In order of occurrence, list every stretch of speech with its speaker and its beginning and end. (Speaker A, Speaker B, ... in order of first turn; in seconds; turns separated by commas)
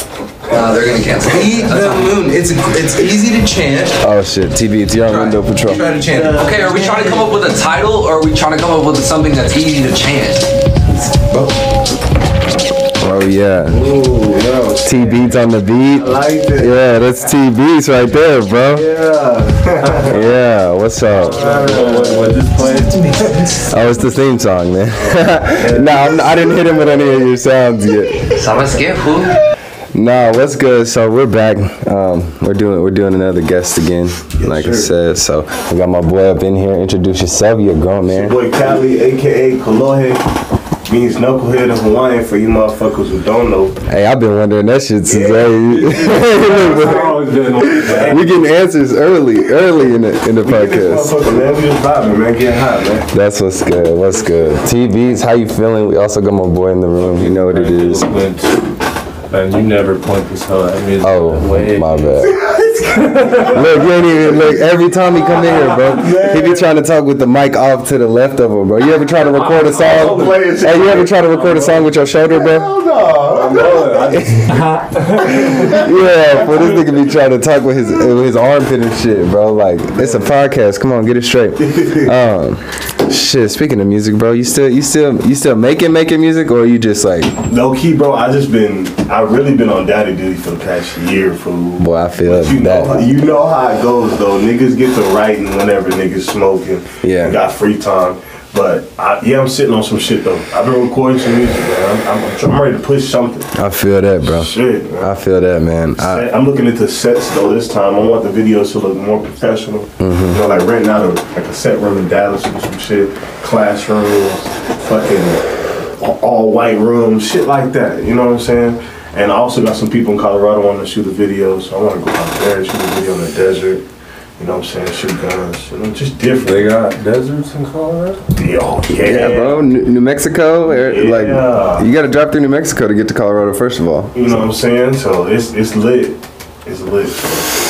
Speaker A: 0.5-4.0, Speaker B: 4.0-5.9, Speaker A: 5.0-10.5, Speaker C: 6.0-7.3, Speaker B: 13.0-13.8, Speaker C: 13.7-16.9, Speaker B: 14.8-18.9, Speaker C: 18.5-20.4, Speaker B: 20.1-21.4, Speaker D: 21.1-23.1, Speaker C: 21.2-22.4, Speaker A: 22.6-23.7, Speaker B: 23.6-28.4, Speaker C: 24.9-27.3, Speaker D: 25.6-26.0, Speaker A: 28.3-29.4, Speaker B: 29.9-38.4, Speaker C: 34.4-34.9, Speaker C: 38.0-40.3, Speaker C: 40.9-43.8, Speaker B: 43.9-47.1, Speaker C: 45.1-48.5, Speaker D: 45.6-48.3, Speaker B: 47.9-51.1, Speaker C: 50.4-53.1, Speaker B: 53.1-58.1, Speaker C: 54.1-54.7, Speaker D: 57.2-58.7, Speaker D: 59.3-62.3, Speaker B: 61.0-62.4, Speaker C: 62.2-66.7, Speaker D: 62.9-63.8, Speaker B: 63.5-72.8, Speaker D: 69.3-70.3, Speaker C: 69.5-76.7, Speaker D: 73.5-75.9, Speaker B: 73.5-74.6, Speaker B: 75.4-87.4, Speaker C: 80.0-80.4, Speaker C: 81.6-82.2, Speaker C: 87.4-103.5, Speaker B: 91.8-93.0, Speaker B: 97.0-97.4, Speaker B: 103.5-106.3, Speaker C: 104.2-105.1, Speaker C: 106.0-115.5, Speaker B: 110.0-110.4, Speaker C: 116.0-123.8, Speaker C: 124.4-126.7, Speaker D: 126.5-128.2, Speaker C: 128.3-129.6, Speaker B: 128.9-134.2, Speaker C: 130.7-131.9, Speaker C: 134.1-137.5